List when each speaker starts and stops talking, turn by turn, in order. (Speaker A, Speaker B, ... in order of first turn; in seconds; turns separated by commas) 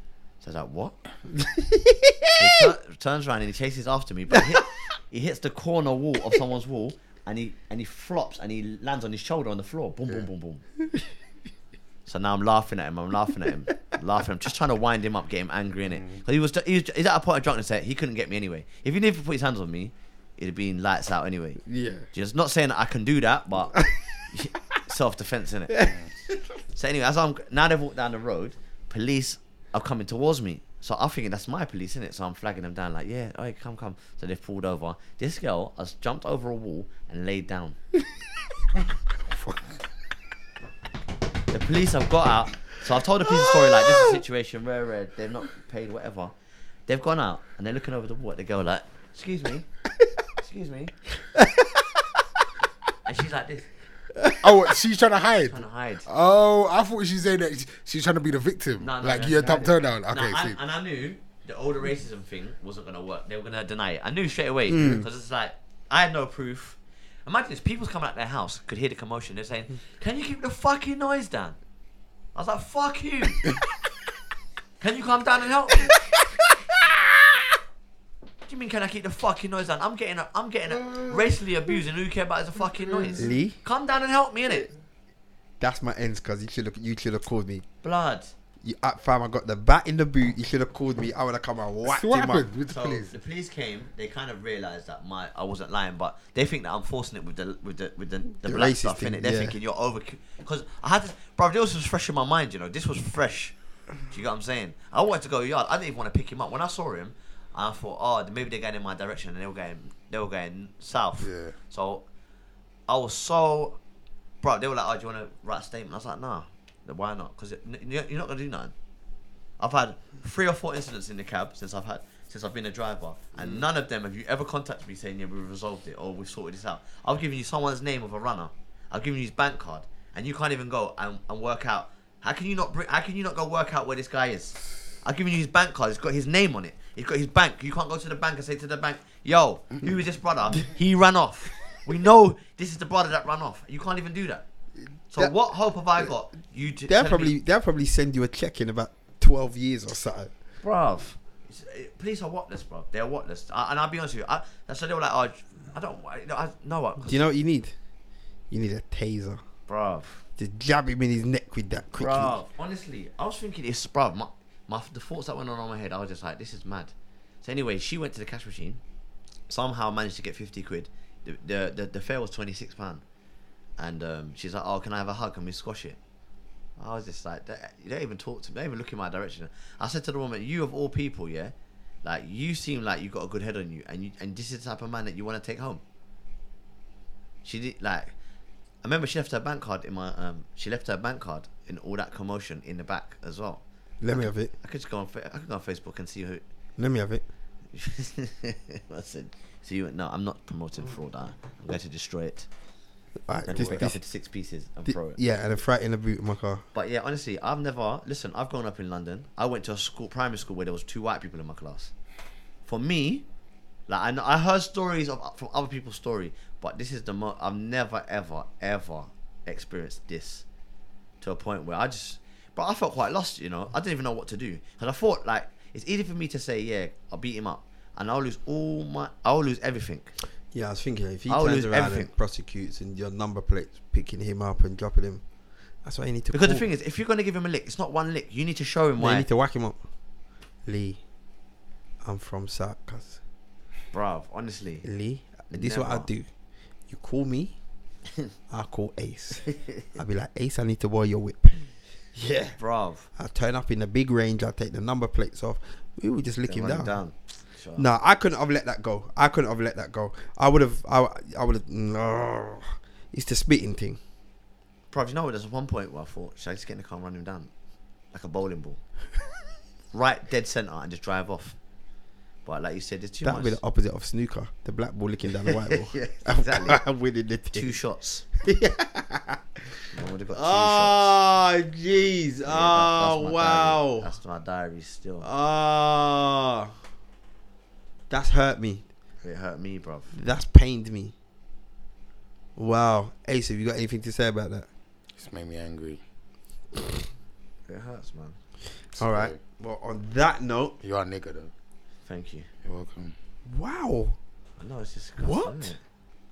Speaker A: 0.4-1.0, Speaker B: 1.4-2.7, Speaker A: 2.4-10.6, Speaker B: 4.3-4.6, Speaker A: 12.1-25.9, Speaker C: 15.9-16.2, Speaker B: 21.6-22.1, Speaker B: 23.7-24.2, Speaker B: 25.7-26.4, Speaker A: 26.7-37.8, Speaker C: 39.2-39.8, Speaker A: 41.5-46.3, Speaker B: 43.4-44.1, Speaker A: 46.9-49.7, Speaker A: 50.4-50.9, Speaker B: 51.3-52.2, Speaker A: 53.0-53.7, Speaker B: 54.1-54.4, Speaker C: 54.4-60.6, Speaker A: 55.4-56.0, Speaker A: 58.8-71.6, Speaker B: 64.7-65.0, Speaker A: 72.3-73.5, Speaker A: 74.8-75.9, Speaker A: 78.5-84.7, Speaker C: 80.8-81.2, Speaker C: 82.8-83.3, Speaker B: 83.2-83.5, Speaker B: 85.6-87.6, Speaker A: 87.8-88.3, Speaker B: 88.6-92.5, Speaker C: 91.8-93.1, Speaker A: 92.7-103.5, Speaker B: 98.4-99.5, Speaker A: 104.1-112.0, Speaker C: 111.2-111.5, Speaker A: 112.9-113.8, Speaker A: 114.4-118.7, Speaker A: 119.6-144.4, Speaker A: 145.1-147.3, Speaker B: 146.9-150.3, Speaker A: 150.6-157.2, Speaker B: 157.0-157.7, Speaker B: 158.5-159.4, Speaker A: 159.7-160.2, Speaker B: 160.4-162.4, Speaker A: 161.9-166.9, Speaker A: 167.4-168.8, Speaker A: 169.5-173.0, Speaker A: 173.8-176.0, Speaker A: 176.8-185.8, Speaker A: 187.4-188.1, Speaker A: 188.8-196.4, Speaker B: 194.0-194.5, Speaker B: 196.8-197.2, Speaker A: 197.7-202.5, Speaker B: 203.3-204.0, Speaker A: 203.5-205.2, Speaker B: 204.8-206.6, Speaker A: 206.7-211.9, Speaker A: 212.7-213.2, Speaker A: 213.9-220.4, Speaker A: 221.2-230.1, Speaker B: 230.5-235.2, Speaker A: 231.3-232.1, Speaker B: 235.8-236.6, Speaker A: 236.3-239.3, Speaker B: 239.0-239.8, Speaker B: 240.7-241.0, Speaker B: 242.0-243.2, Speaker A: 243.9-244.8, Speaker B: 244.8-246.3, Speaker A: 245.5-246.1, Speaker B: 246.9-247.6, Speaker B: 248.5-252.6, Speaker A: 252.6-253.1, Speaker B: 253.2-256.9, Speaker A: 256.5-257.9, Speaker B: 257.8-264.0, Speaker A: 264.9-267.5, Speaker A: 268.1-268.8, Speaker A: 269.9-271.6, Speaker A: 272.4-273.6, Speaker B: 273.2-277.7, Speaker A: 275.4-276.8, Speaker A: 277.5-278.2, Speaker B: 278.4-279.4, Speaker A: 279.9-281.1, Speaker B: 280.3-284.1, Speaker A: 282.4-285.3, Speaker B: 285.2-286.7, Speaker B: 288.1-288.8, Speaker A: 289.2-290.1, Speaker B: 290.1-291.1, Speaker B: 292.6-294.7, Speaker C: 295.1-296.0, Speaker A: 297.7-298.4, Speaker C: 298.9-299.4, Speaker B: 299.0-300.8, Speaker C: 300.8-301.5, Speaker A: 302.1-302.5, Speaker C: 302.6-303.1, Speaker B: 303.5-304.2, Speaker A: 304.6-305.8, Speaker B: 305.2-305.7